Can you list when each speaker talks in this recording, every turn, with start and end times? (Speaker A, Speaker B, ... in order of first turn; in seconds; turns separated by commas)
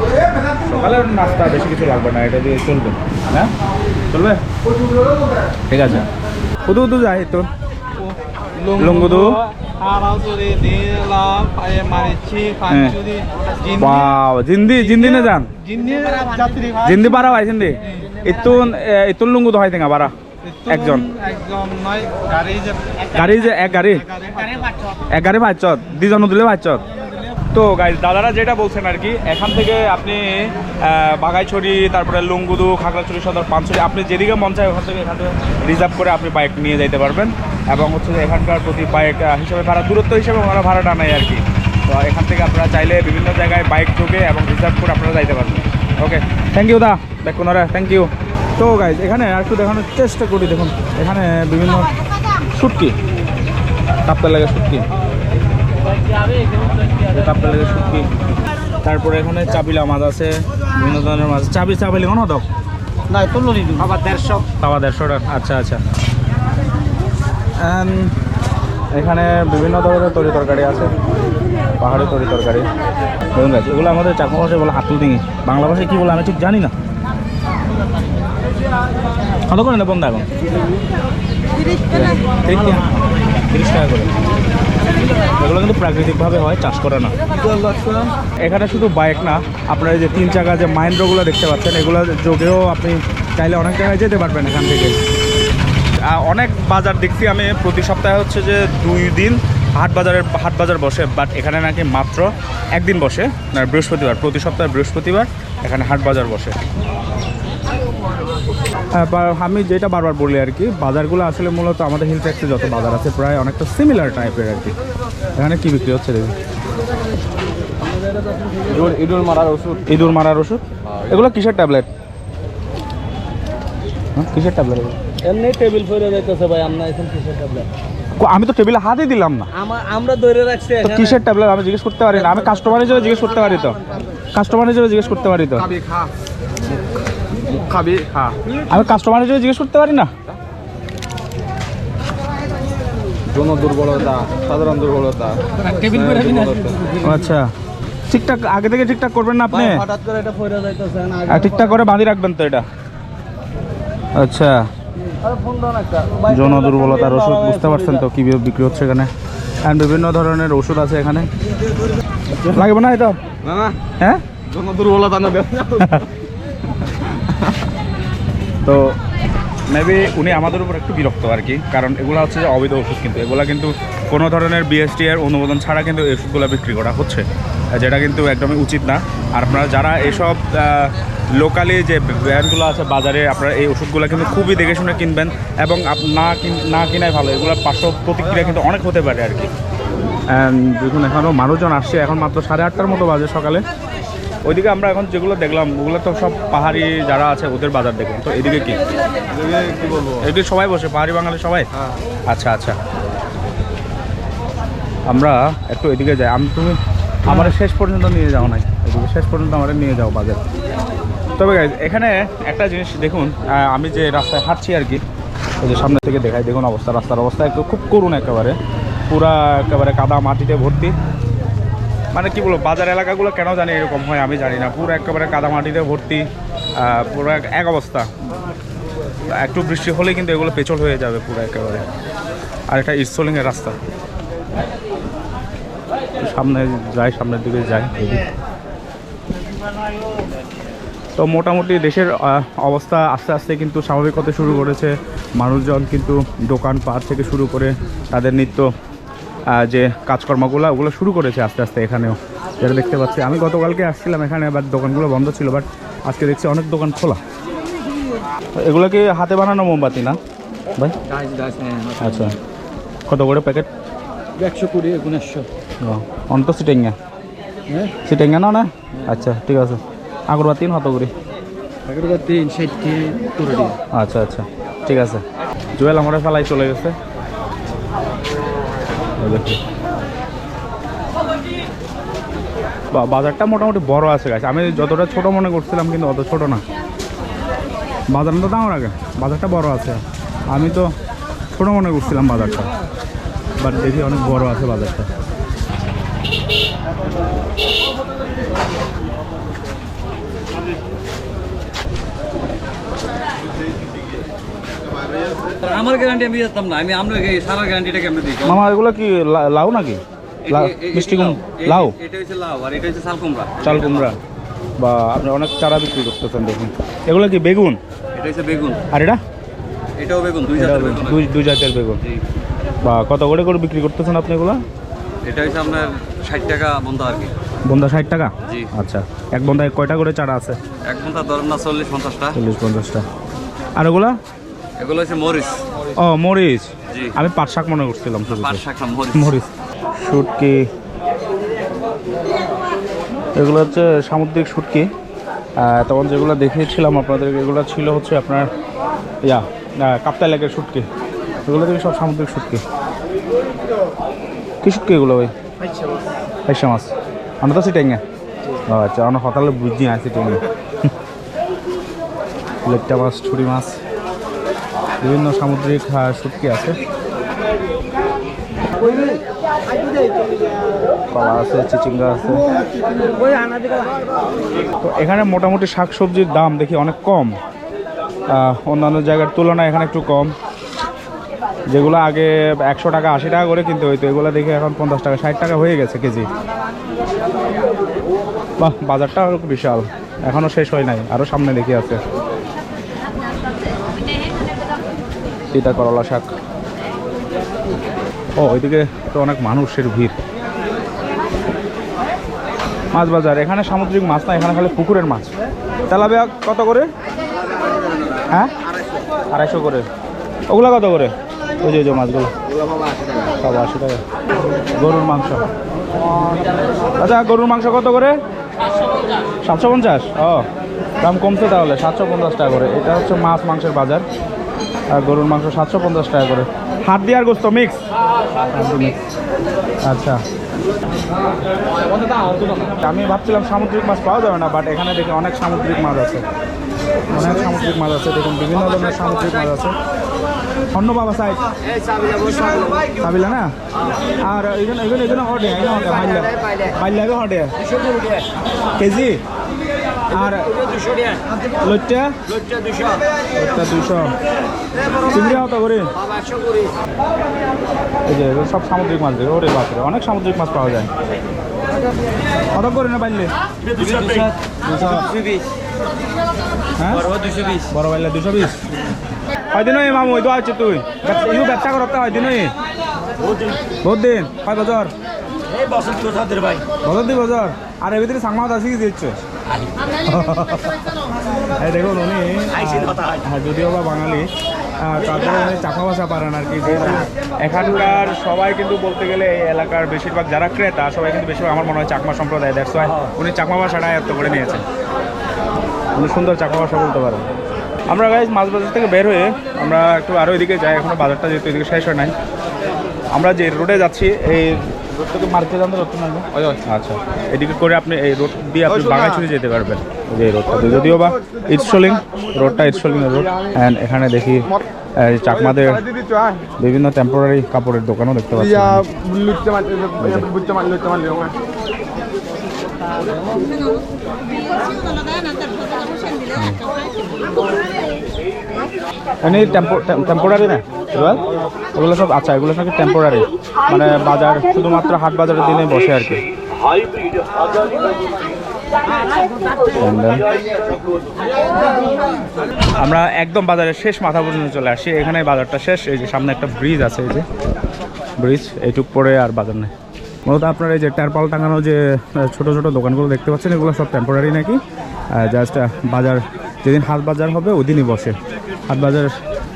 Speaker A: 0.6-3.5, Speaker A: 4.1-4.4, Speaker A: 5.7-6.1, Speaker A: 6.7-7.5, Speaker B: 8.6-13.8, Speaker A: 8.7-9.4, Speaker A: 12.6-13.0, Speaker A: 13.7-15.5, Speaker B: 15.6-16.9, Speaker A: 16.8-20.1, Speaker A: 20.7-21.1, Speaker B: 21.1-22.8, Speaker A: 23.1-24.1, Speaker A: 25.1-26.8, Speaker A: 27.5-51.9, Speaker A: 52.5-53.0, Speaker A: 54.0-54.9, Speaker A: 57.1-58.1, Speaker A: 58.8-62.5, Speaker B: 63.2-64.4, Speaker A: 64.6-65.8, Speaker A: 67.6-68.2, Speaker A: 69.0-70.9, Speaker A: 71.8-72.7, Speaker A: 73.3-76.7, Speaker A: 79.5-80.3, Speaker A: 81.9-84.1, Speaker A: 85.4-87.1, Speaker B: 87.5-88.1, Speaker A: 88.4-95.0, Speaker A: 96.0-106.6, Speaker A: 109.0-114.8, Speaker A: 115.4-116.3, Speaker B: 118.4-119.8, Speaker A: 119.9-121.9, Speaker A: 124.2-125.0, Speaker B: 125.3-127.7, Speaker A: 128.2-129.5, Speaker B: 129.6-131.2, Speaker A: 130.8-133.8, Speaker A: 134.3-135.7, Speaker B: 135.8-136.1, Speaker B: 137.5-138.4, Speaker A: 138.7-140.1, Speaker B: 143.3-147.0, Speaker A: 147.0-147.5, Speaker A: 148.1-149.9, Speaker B: 149.5-151.7, Speaker A: 151.3-152.7, Speaker A: 154.2-154.7, Speaker B: 155.3-158.0, Speaker A: 156.3-159.1, Speaker A: 159.6-161.3, Speaker A: 162.3-163.2, Speaker B: 163.5-163.8, Speaker B: 164.5-165.8, Speaker A: 165.8-166.1, Speaker A: 168.6-168.9, Speaker A: 169.7-189.5, Speaker A: 190.3-193.6, Speaker A: 194.5-198.8, Speaker B: 199.4-200.0, Speaker A: 200.1-201.7, Speaker A: 202.3-202.8, Speaker A: 205.1-210.4, Speaker A: 211.4-215.0, Speaker A: 215.6-218.6, Speaker A: 219.1-220.9, Speaker A: 222.1-226.3, Speaker A: 226.8-228.1, Speaker A: 229.3-231.8, Speaker A: 232.7-233.8, Speaker A: 236.2-238.3, Speaker A: 241.2-248.7, Speaker A: 249.5-257.2, Speaker A: 258.6-260.2, Speaker C: 261.1-262.1, Speaker A: 262.0-262.4, Speaker A: 263.1-263.7, Speaker B: 264.4-265.3, Speaker C: 264.4-265.5, Speaker A: 265.8-267.0, Speaker A: 268.1-271.1, Speaker B: 271.9-273.8, Speaker C: 272.0-272.5, Speaker C: 273.5-273.7, Speaker A: 273.9-275.2, Speaker A: 275.8-276.9, Speaker A: 279.2-279.6, Speaker A: 282.9-286.6, Speaker A: 288.1-290.9, Speaker A: 291.6-292.7, Speaker A: 293.6-295.1, Speaker C: 305.5-308.6, Speaker A: 308.4-311.9, Speaker C: 310.5-314.1, Speaker A: 313.6-314.2, Speaker A: 314.8-317.8, Speaker C: 318.1-318.8, Speaker A: 318.9-319.2, Speaker C: 320.0-321.2, Speaker A: 320.6-322.0, Speaker A: 322.9-324.6, Speaker C: 325.2-327.3, Speaker A: 327.7-330.6, Speaker C: 330.9-332.3, Speaker A: 332.3-333.1, Speaker A: 333.8-334.1, Speaker C: 334.8-335.7, Speaker A: 335.9-340.7, Speaker C: 338.3-339.4, Speaker A: 343.4-344.9, Speaker A: 345.6-348.5, Speaker A: 349.2-350.9, Speaker A: 351.5-352.6, Speaker A: 354.6-355.3, Speaker A: 356.5-356.9, Speaker A: 357.4-358.0, Speaker A: 358.6-360.4, Speaker A: 362.6-363.8, Speaker A: 365.0-366.8, Speaker A: 371.1-372.4, Speaker B: 373.3-373.8, Speaker A: 374.8-377.3, Speaker A: 378.3-380.3, Speaker A: 381.7-386.3, Speaker A: 388.6-392.0, Speaker A: 395.5-396.3, Speaker A: 398.4-400.1, Speaker A: 402.9-405.3, Speaker A: 405.9-406.9, Speaker A: 409.3-409.9, Speaker A: 410.5-412.3, Speaker A: 413.4-414.0, Speaker A: 414.7-415.5, Speaker A: 417.0-418.2, Speaker A: 419.4-420.5, Speaker A: 421.0-424.0, Speaker A: 424.9-427.8, Speaker A: 428.5-429.0, Speaker A: 429.9-430.2, Speaker A: 432.6-436.2, Speaker A: 437.1-439.8, Speaker A: 440.7-441.4, Speaker C: 442.1-442.6, Speaker A: 443.0-443.5, Speaker A: 444.2-447.5, Speaker A: 448.8-449.2, Speaker A: 450.1-450.5, Speaker A: 451.6-452.1, Speaker A: 453.4-454.1, Speaker A: 455.1-455.9, Speaker A: 458.1-460.9, Speaker A: 462.5-463.3, Speaker C: 463.7-464.3, Speaker A: 464.6-465.1, Speaker C: 465.0-465.4, Speaker A: 466.8-467.1, Speaker A: 467.7-468.6, Speaker A: 469.5-472.5, Speaker A: 473.8-474.9, Speaker C: 475.6-476.6, Speaker A: 476.8-479.2, Speaker A: 480.1-480.9, Speaker A: 481.5-484.3, Speaker C: 482.7-483.1, Speaker A: 484.8-494.6, Speaker A: 495.9-497.3, Speaker A: 497.9-502.1, Speaker A: 503.1-515.9, Speaker B: 515.9-516.4, Speaker A: 516.6-518.9, Speaker B: 518.9-521.4, Speaker A: 520.0-520.3, Speaker A: 526.3-526.6, Speaker A: 529.2-531.2, Speaker A: 531.8-536.2, Speaker A: 539.7-540.3, Speaker A: 542.8-547.3, Speaker A: 548.2-549.7, Speaker A: 550.3-554.6, Speaker A: 555.1-558.2, Speaker A: 558.7-559.1